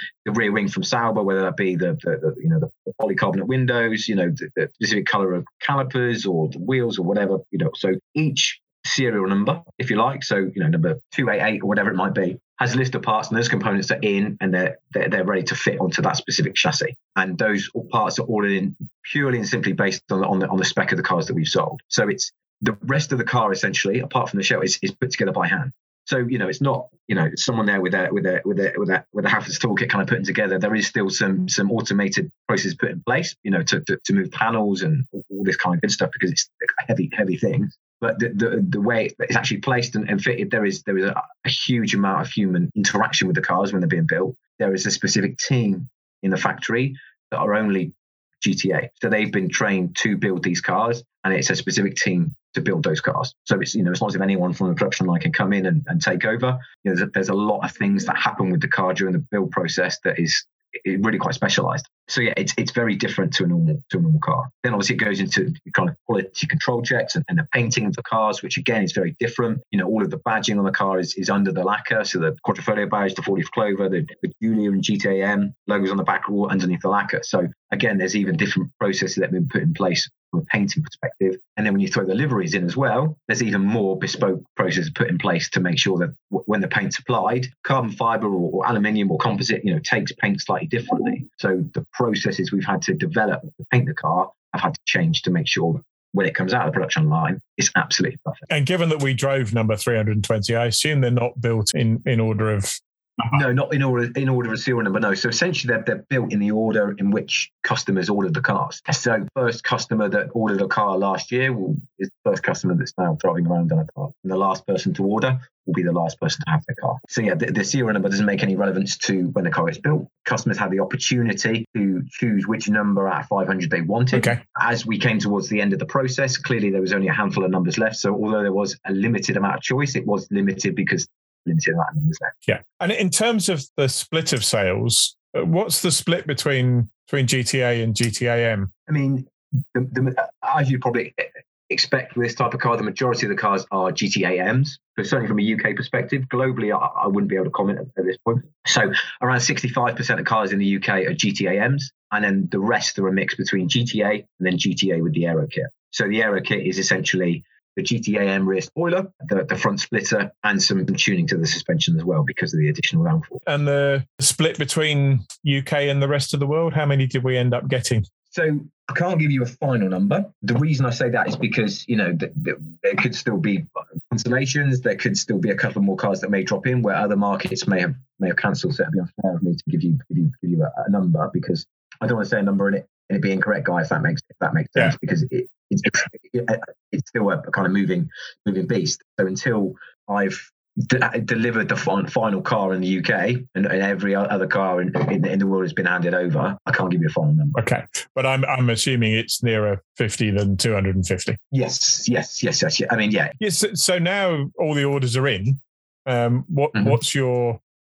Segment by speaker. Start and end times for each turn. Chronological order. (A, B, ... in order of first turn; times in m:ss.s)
0:00.2-1:38.5 A
1:38.5-1:43.3 B
1:43.3-2:12.4 A
2:12.5-2:18.7 B
2:18.9-2:43.4 A
2:43.5-2:48.0 B
2:48.3-3:17.6 A
3:17.6-3:21.4 B
3:21.5-3:23.4 A
3:23.4-3:27.6 B